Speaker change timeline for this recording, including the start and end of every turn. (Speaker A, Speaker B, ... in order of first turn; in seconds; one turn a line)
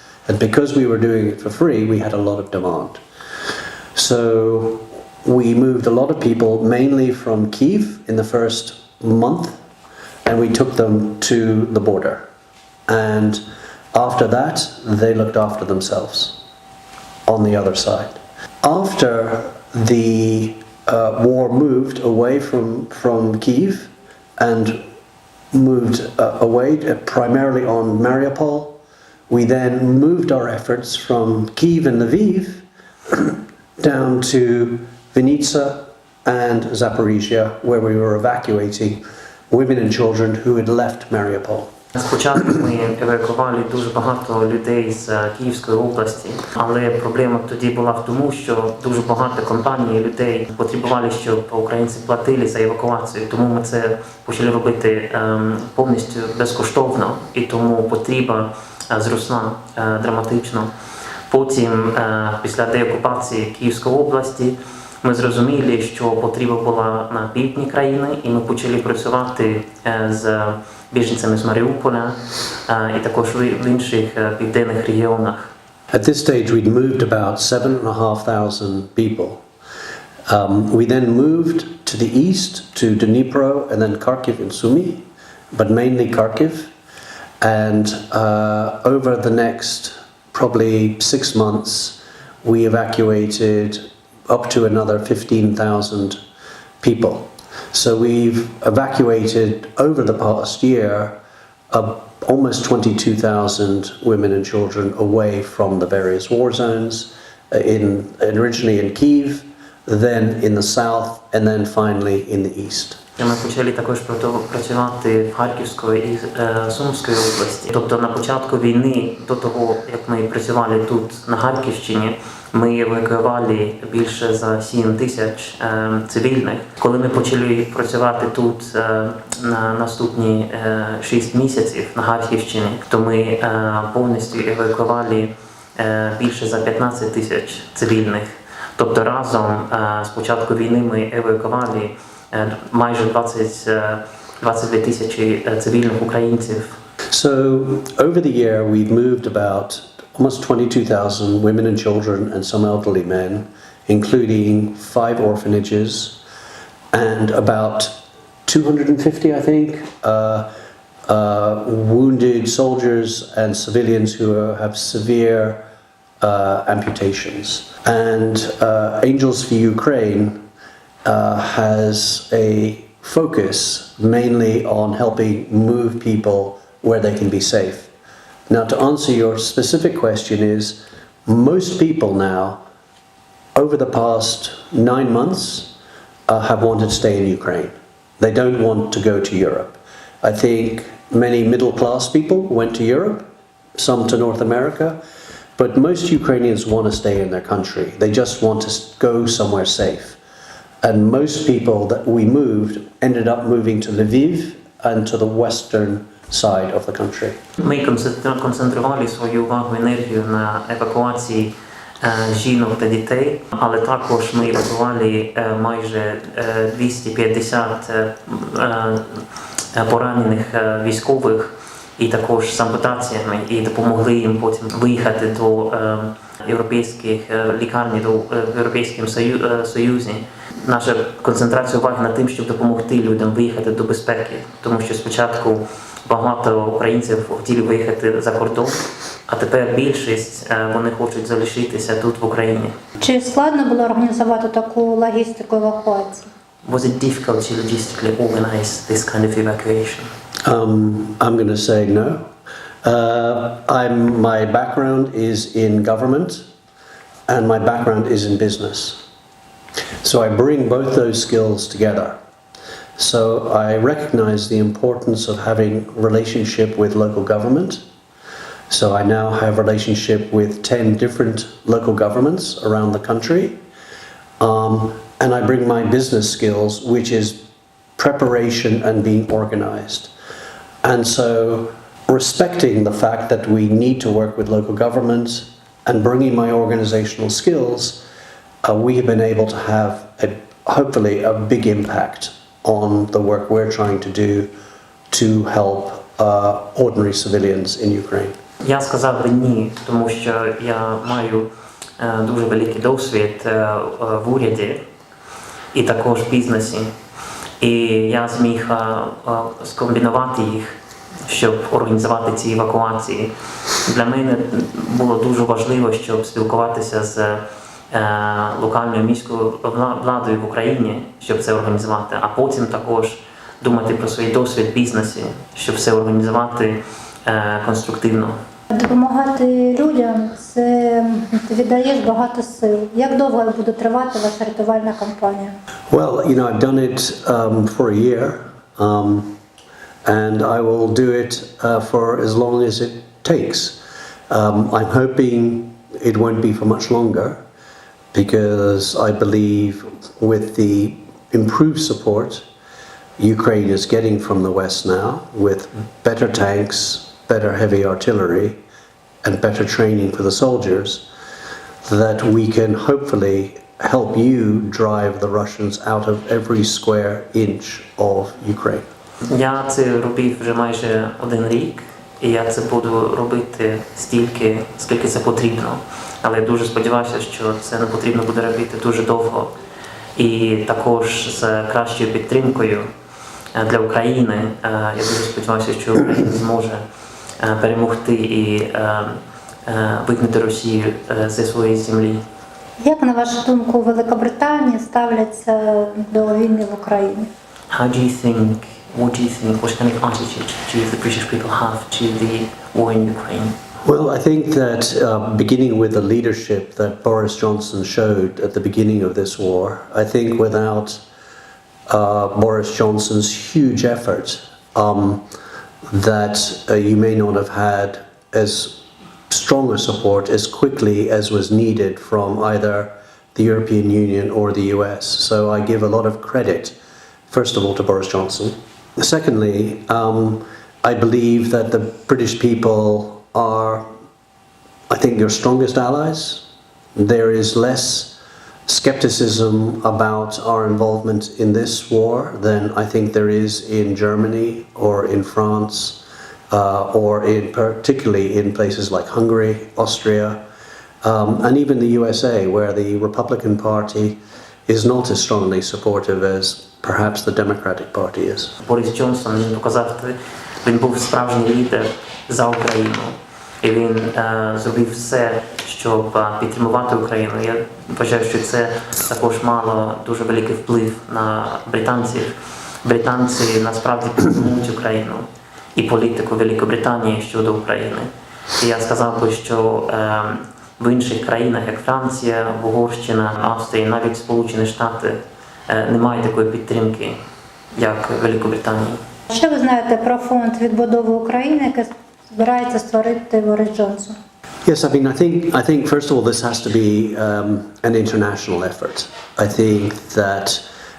Speaker A: 0.3-3.0
Speaker A: 3.9-9.6
Speaker A: 10.2-12.2
Speaker A: 12.9-13.4
Speaker A: 13.9-16.4
Speaker A: 17.3-24.8
Speaker A: 25.5-41.7
Speaker B: 41.9-60.7
Speaker B: 61.3-75.5
Speaker A: 75.9-79.4
Speaker A: 80.3-86.7
Speaker A: 87.4-96.2
Speaker A: 96.8-101.2
Speaker A: 101.7-113.0
Speaker B: 113.2-146.8
Speaker A: 147.1-156.2
Speaker A: 156.9-160.5
Speaker A: 161.1-165.7
Speaker A: 166.2-170.4
Speaker A: 171.0-177.9
Speaker A: 178.5-182.6
Speaker A: 183.6-185.8
Speaker A: 186.3-195.0
Speaker A: 195.6-200.2
Speaker A: 200.8-207.4
Speaker B: 207.6-242.7
Speaker C: 243.0-246.2
Speaker B: 246.6-250.1
Speaker A: 250.4-252.3
Speaker A: 252.8-256.4
Speaker A: 257.3-259.0
Speaker A: 260.0-262.2
Speaker A: 263.0-267.8
Speaker A: 268.7-273.6
Speaker A: 274.4-277.4
Speaker A: 278.0-280.1
Speaker A: 280.8-288.0
Speaker A: 288.6-294.5
Speaker A: 295.1-298.4
Speaker B: 298.6-304.8
Speaker B: 305.7-306.9
Speaker B: 307.6-313.3
Speaker B: 313.8-328.3
Speaker C: 328.7-335.5
Speaker A: 335.9-339.4
Speaker A: 340.0-347.4
Speaker A: 348.1-352.4
Speaker A: 353.2-358.6
Speaker A: 359.2-361.1
Speaker A: 361.9-368.8
Speaker B: 369.2-379.5
Speaker B: 380.1-382.9
Speaker B: 383.5-386.8
Speaker B: 387.4-392.2
Speaker C: 392.8-397.3
Speaker B: 397.7-403.5
Speaker A: 403.9-411.0
Speaker A: 411.9-415.3
Speaker A: 415.9-426.7
Speaker A: 427.3-433.9
Speaker A: 434.9-436.4
Speaker A: 437.0-450.4
Speaker A: 451.0-458.5
Speaker B: 458.6-487.2
Speaker B: 487.8-489.0
Speaker C: 489.3-494.1
Speaker A: 494.6-500.6